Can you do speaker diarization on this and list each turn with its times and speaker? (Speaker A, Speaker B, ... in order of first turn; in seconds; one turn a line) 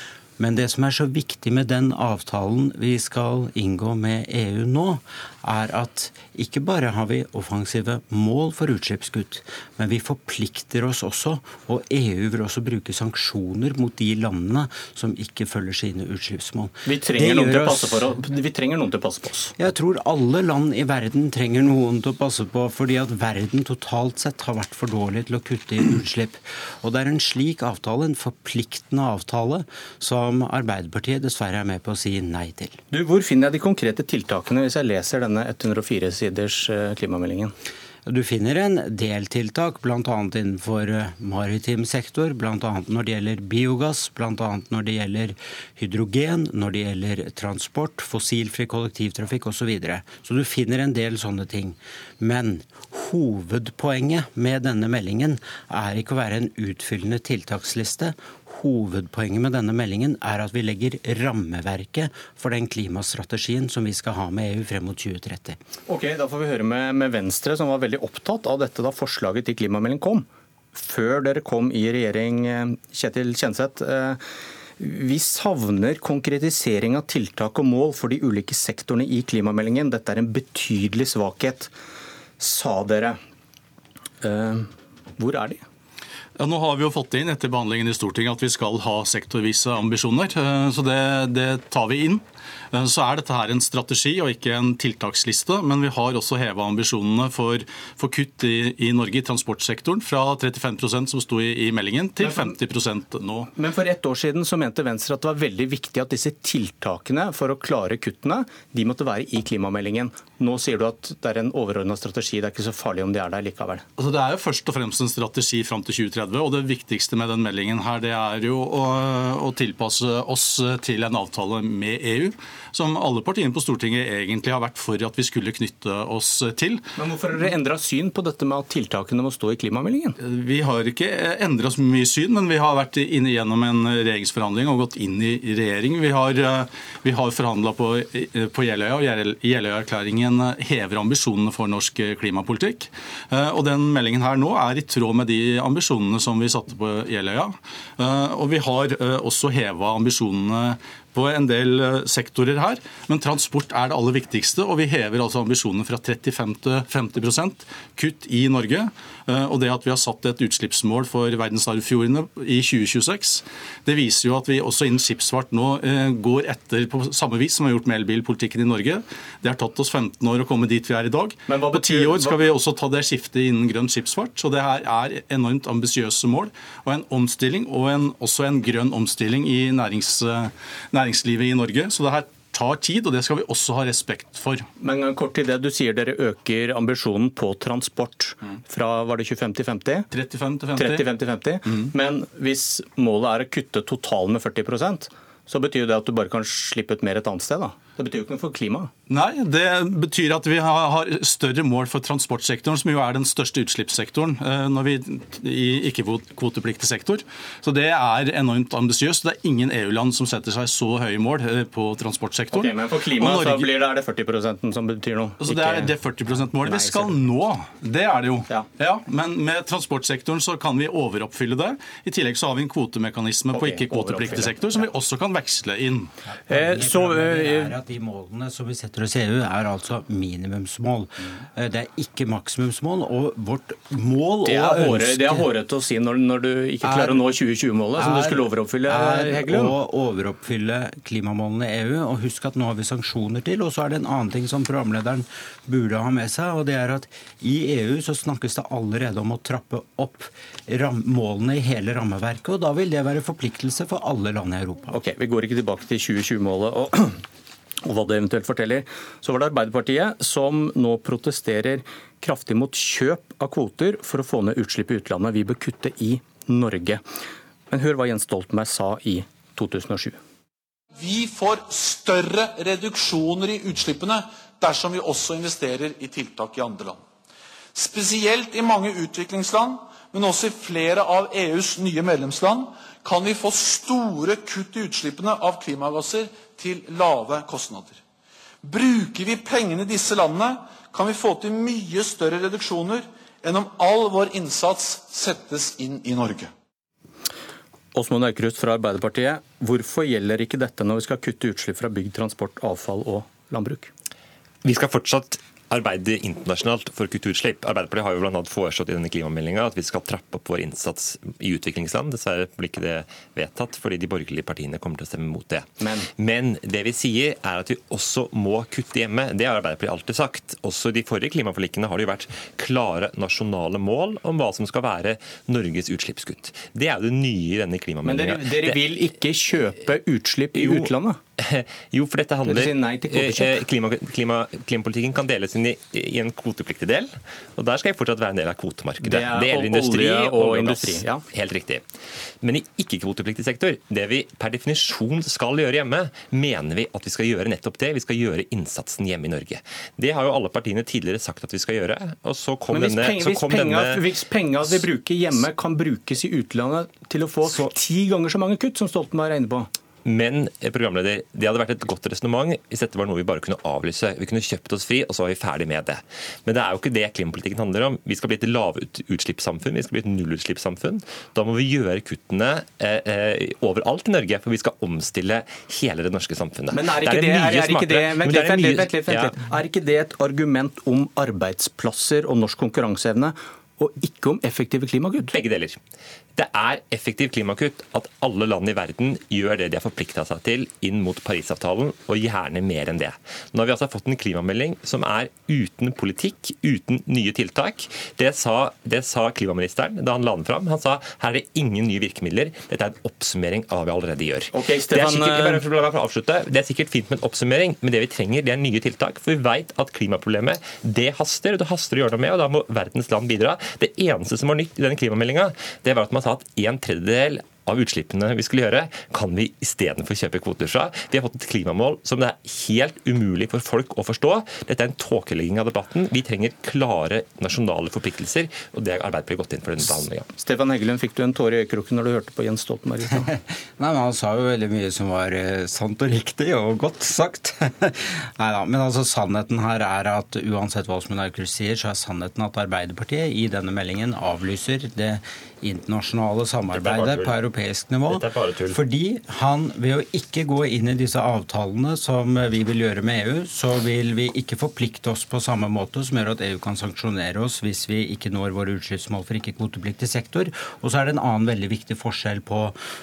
Speaker A: 0.4-18.0
Speaker B: 16.9-19.5
Speaker A: 19.6-32.8
Speaker B: 32.9-37.5
Speaker A: 38.1-65.6
Speaker B: 65.9-74.2
Speaker B: 74.8-81.7
Speaker B: 82.4-83.2
Speaker B: 84.2-85.6
Speaker C: 86.4-103.5
Speaker B: 103.5-113.8
Speaker C: 114.0-126.8
Speaker B: 127.0-130.2
Speaker C: 130.2-184.7
Speaker B: 171.5-172.4
Speaker B: 184.8-190.1
Speaker C: 190.1-191.1
Speaker B: 190.8-198.9
Speaker C: 199.1-213.8
Speaker B: 212.5-215.9
Speaker C: 215.4-226.1
Speaker B: 216.6-217.1
Speaker B: 223.5-224.8
Speaker B: 226.5-227.8
Speaker A: 226.5-235.5
Speaker B: 234.4-239.8
Speaker A: 236.8-237.2
Speaker A: 238.0-254.9
Speaker B: 254.9-257.2
Speaker B: 257.8-267.0
Speaker B: 267.7-270.2
Speaker D: 271.0-277.0
Speaker D: 277.8-287.9
Speaker D: 288.6-296.5
Speaker B: 297.9-303.9
Speaker E: 304.6-315.7
Speaker B: 315.8-316.1
Speaker E: 316.2-328.8
Speaker B: 328.0-331.2
Speaker E: 330.6-341.8
Speaker B: 332.5-333.6
Speaker B: 339.0-341.2
Speaker E: 342.4-354.0
Speaker B: 352.7-359.7
Speaker E: 360.1-379.4
Speaker B: 376.7-385.4
Speaker E: 385.2-385.8
Speaker E: 386.4-430.3
Speaker B: 404.5-405.6
Speaker B: 430.4-433.3
Speaker A: 433.2-462.8
Speaker E: 446.7-447.4
Speaker E: 448.1-448.8